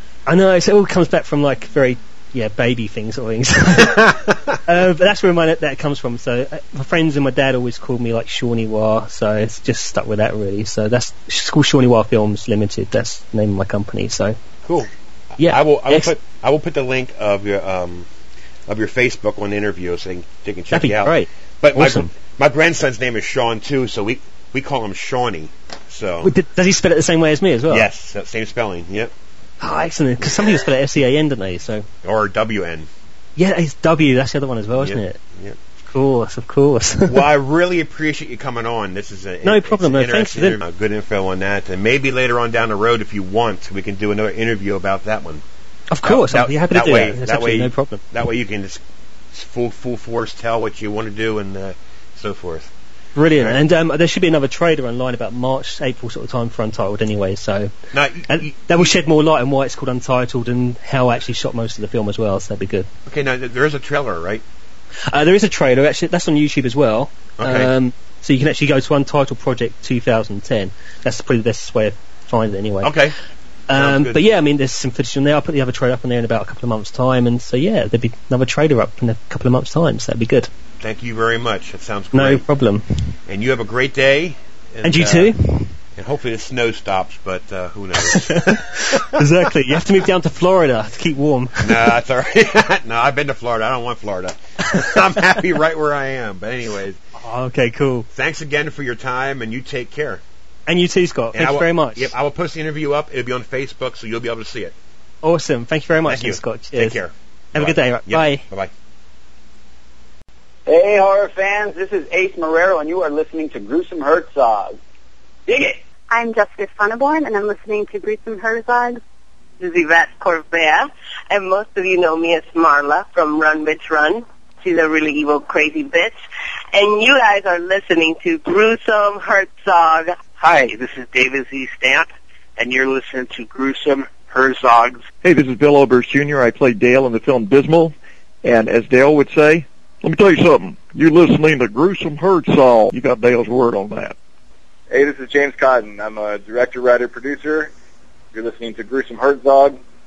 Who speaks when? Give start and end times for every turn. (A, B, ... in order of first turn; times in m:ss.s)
0:00.3-0:14.4 A
0:14.6-0:18.1 B
0:15.4-0:16.1 A
0:18.7-0:26.3 B
0:20.7-0:22.1 A
0:26.2-0:27.9 A
0:27.7-0:29.1 B
0:29.6-0:31.9 A
0:32.0-0:32.9 B
0:33.4-0:35.2 A
0:34.8-0:35.6 B
0:35.9-0:37.2 A
0:37.0-0:45.4 B
0:39.4-0:40.6 A
0:45.9-0:48.0 A
0:46.0-0:48.8 B
0:49.3-0:52.7 B
0:53.1-0:57.7 A
0:57.9-0:58.9 B
0:58.3-1:02.9 A
1:03.0-1:04.4 B
1:05.1-1:12.9 A
1:07.4-1:07.7 B
1:12.8-1:13.2 B
1:13.7-1:20.5 A
1:13.7-1:14.2 B
1:20.8-1:22.4 B
1:22.1-1:22.8 A
1:23.3-1:25.4 B
1:24.8-1:25.7 A
1:26.0-1:29.8 B
1:28.0-1:31.9 A
1:31.6-1:37.0 B
1:37.2-1:38.1 A
1:38.1-1:40.2 B
1:40.6-1:42.1 A
1:41.3-1:44.7 B
1:45.2-1:47.0 A
1:46.1-1:48.7 B
1:47.5-1:48.4 A
1:50.7-1:54.8 C
1:55.5-1:55.8 C
1:56.1-1:59.0 D
1:59.6-2:06.2 E
2:06.7-2:10.2 E
2:10.3-2:15.0 F
2:15.2-2:24.1 G
2:24.9-2:27.7 H
2:28.3-2:29.8 H